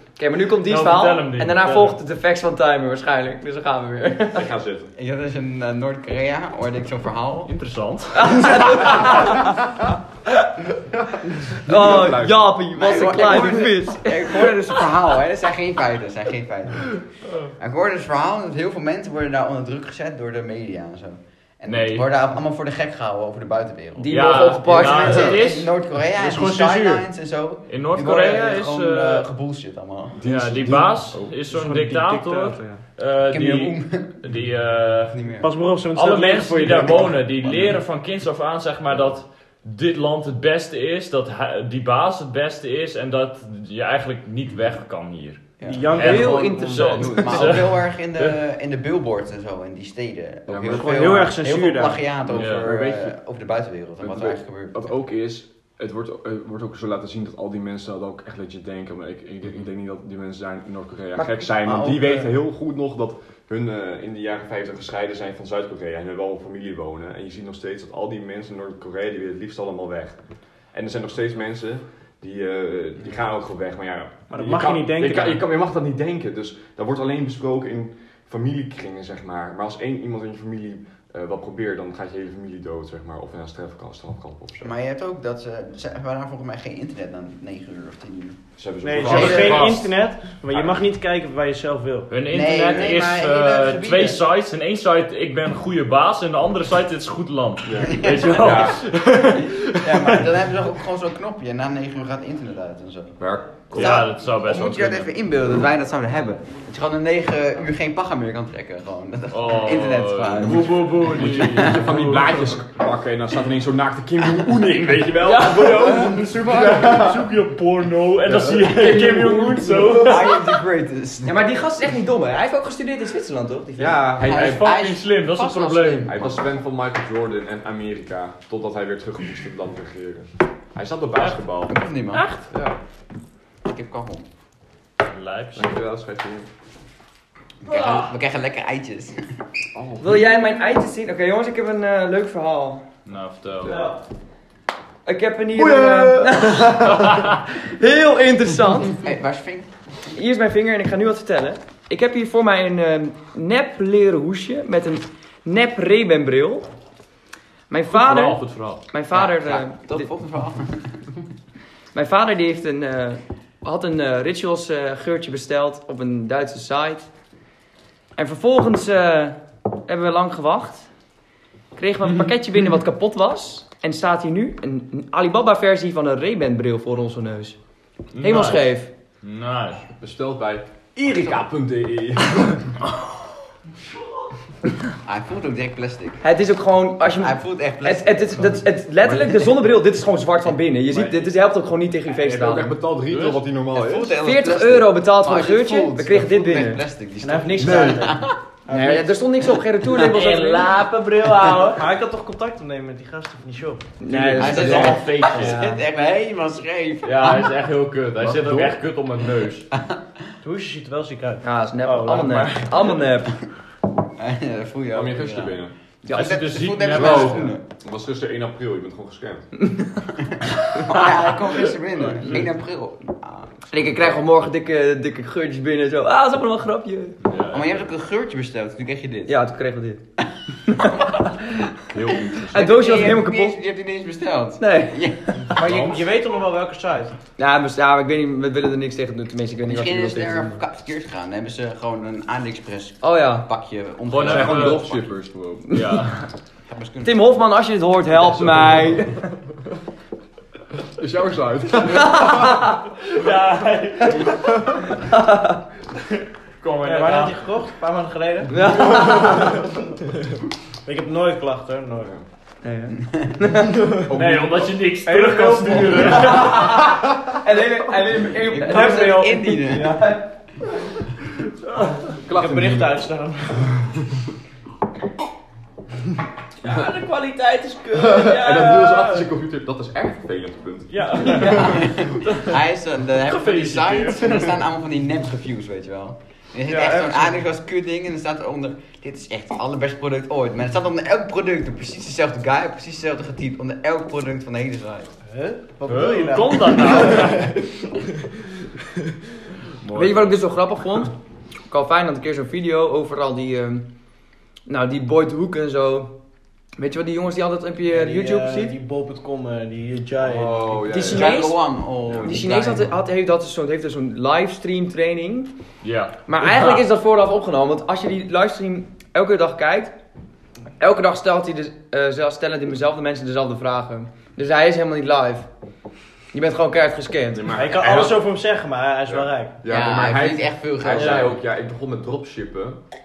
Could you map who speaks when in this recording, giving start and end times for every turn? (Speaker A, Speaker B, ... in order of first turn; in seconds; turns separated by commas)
Speaker A: 0.2-4.5, Speaker B: 0.6-1.9, Speaker C: 4.3-4.9, Speaker D: 5.0-7.5, Speaker B: 7.5-9.1, Speaker A: 8.2-9.6, Speaker C: 10.9-12.6, Speaker A: 11.6-14.6, Speaker D: 12.7-17.1, Speaker D: 17.6-30.2, Speaker B: 21.7-22.1, Speaker A: 24.0-25.4, Speaker B: 24.1-26.9, Speaker E: 26.2-27.1, Speaker B: 27.7-29.3, Speaker C: 30.2-31.4, Speaker B: 30.2-35.2, Speaker E: 31.5-32.9, Speaker D: 33.3-34.2, Speaker D: 35.1-35.5, Speaker E: 35.4-37.3, Speaker B: 35.9-48.4, Speaker D: 37.4-37.7, Speaker D: 45.6-45.9, Speaker E: 45.6-47.1, Speaker A: 46.0-47.4, Speaker D: 47.0-54.9, Speaker C: 50.5-51.0, Speaker E: 50.7-52.1, Speaker C: 52.3-53.2, Speaker B: 52.3-52.7, Speaker C: 54.0-84.8, Speaker A: 61.2-61.6, Speaker E: 74.3-75.4, Speaker D: 84.6-88.4, Speaker C: 88.6-90.0, Speaker E: 88.8-92.2, Speaker B: 89.0-89.9, Speaker D: 89.1-89.6, Speaker C: 90.5-90.8, Speaker B: 92.1-100.3, Speaker D: 92.3-94.2, Speaker C: 97.6-98.9, Speaker D: 97.9-98.6, Speaker D: 99.8-103.2, Speaker C: 103.2-104.0, Speaker B: 103.7-105.1, Speaker D: 103.7-111.8, Speaker B: 109.3-112.5, Speaker C: 111.1-117.3, Speaker B: 115.2-120.6, Speaker C: 118.2-120.3, Speaker D: 120.0-121.4, Speaker A: 121.2-124.1, Speaker C: 123.8-124.7, Speaker D: 124.2-126.5, Speaker B: 124.2-126.3, Speaker C: 126.1-131.8, Speaker D: 131.7-132.3, Speaker B: 132.1-132.4, Speaker C: 132.5-132.8, Speaker D: 133.6-134.3, Speaker B: 135.1-135.7, Speaker C: 135.6-136.5, Speaker D: 137.6-139.2, Speaker A: 137.7-138.0, Speaker C: 139.7-140.2, Speaker A: 140.0-142.8, Speaker B: 143.1-143.8, Speaker E: 143.7-144.0, Speaker A: 145.1-149.1, Speaker C: 145.5-147.3, Speaker D: 148.9-149.7, Speaker A: 150.1-156.7, Speaker A: 157.7-160.1, Speaker B: 157.9-158.8, Speaker D: 159.1-161.2, Speaker A: 161.9-167.1, Speaker A: 168.2-170.9, Speaker A: 171.8-177.6, Speaker B: 178.1-178.7, Speaker A: 178.2-178.9, Speaker B: 179.2-179.8, Speaker C: 180.0-182.8, Speaker D: 185.0-186.2, Speaker A: 186.2-192.8, Speaker D: 187.1-188.7, Speaker C: 189.0-189.3, Speaker C: 190.9-191.3, Speaker C: 192.2-194.2, Speaker B: 193.1-193.4, Speaker D: 193.7-198.4, Speaker A: 194.2-196.8, Speaker E: 197.2-199.1, Speaker C: 197.6-198.1, Speaker A: 198.7-200.7, Speaker B: 199.9-201.8, Speaker E: 201.7-203.9, Speaker A: 204.0-205.8, Speaker B: 204.1-205.6, Speaker D: 204.4-207.5, Speaker B: 207.0-209.7, Speaker C: 208.2-208.8, Speaker D: 209.7-210.0, Speaker E: 210.4-213.0, Speaker A: 211.4-213.3, Speaker D: 214.2-217.6, Speaker C: 214.9-215.7, Speaker A: 216.1-216.3, Speaker B: 216.1-217.5, Speaker C: 216.9-219.5, Speaker D: 220.2-224.2, Speaker A: 223.7-227.2, Speaker B: 227.2-227.9, Speaker D: 227.5-229.3, Speaker A: 229.3-230.0, Speaker A: 230.7-231.7, Speaker C: 231.9-233.0, Speaker D: 232.3-235.3, Speaker A: 232.5-233.6, Speaker A: 234.6-235.3, Speaker E: 235.3-237.2, Speaker B: 235.5-236.0, Speaker A: 237.4-240.6, Speaker D: 239.7-245.0, Speaker A: 243.0-243.5, Speaker B: 244.1-244.8, Speaker C: 244.2-245.9, Speaker B: 245.7-246.3, Speaker D: 246.7-247.2, Speaker A: 247.0-249.3, Speaker C: 248.2-249.0, Speaker C: 250.9-252.8, Speaker A: 252.0-252.8, Speaker B: 253.1-254.6, Speaker C: 254.3-254.8, Speaker A: 255.0-255.6, Speaker B: 256.6-257.4, Speaker E: 256.8-258.6, Speaker A: 258.5-259.6, Speaker C: 258.8-259.5, Speaker E: 260.9-262.1, Speaker A: 262.6-263.8, Speaker C: 264.1-264.8, Speaker B: 264.1-266.7, Speaker E: 265.1-266.4, Speaker A: 266.1-270.2, Speaker D: 268.5-270.0, Speaker E: 268.7-270.1, Speaker C: 272.2-273.1, Speaker E: 272.3-273.7, Speaker C: 273.6-274.2, Speaker B: 276.6-279.2, Speaker C: 277.9-281.9, Speaker B: 280.9-282.5, Speaker D: 281.4-295.1, Speaker B: 283.2-284.6, Speaker E: 286.7-287.4, Speaker E: 295.3-297.7, Speaker B: 295.9-297.5, Speaker B: 299.8-300.4, Speaker A: 299.9-301.2, Speaker A: 301.7-303.9, Speaker A: 304.7-306.1, Speaker A: 306.8-308.7, Speaker E: 307.9-311.0, Speaker C: 310.2-311.4, Speaker A: 310.9-311.6, Speaker D: 311.1-312.9, Speaker C: 312.1-312.4, Speaker A: 312.2-315.5, Speaker B: 315.8-316.8, Speaker A: 316.3-319.9, Speaker A: 320.8-325.5, Speaker A: 326.3-327.6, Speaker C: 327.3-328.3, Speaker E: 327.6-329.6, Speaker C: 329.1-332.8, Speaker D: 329.6-331.4, Speaker E: 331.0-331.3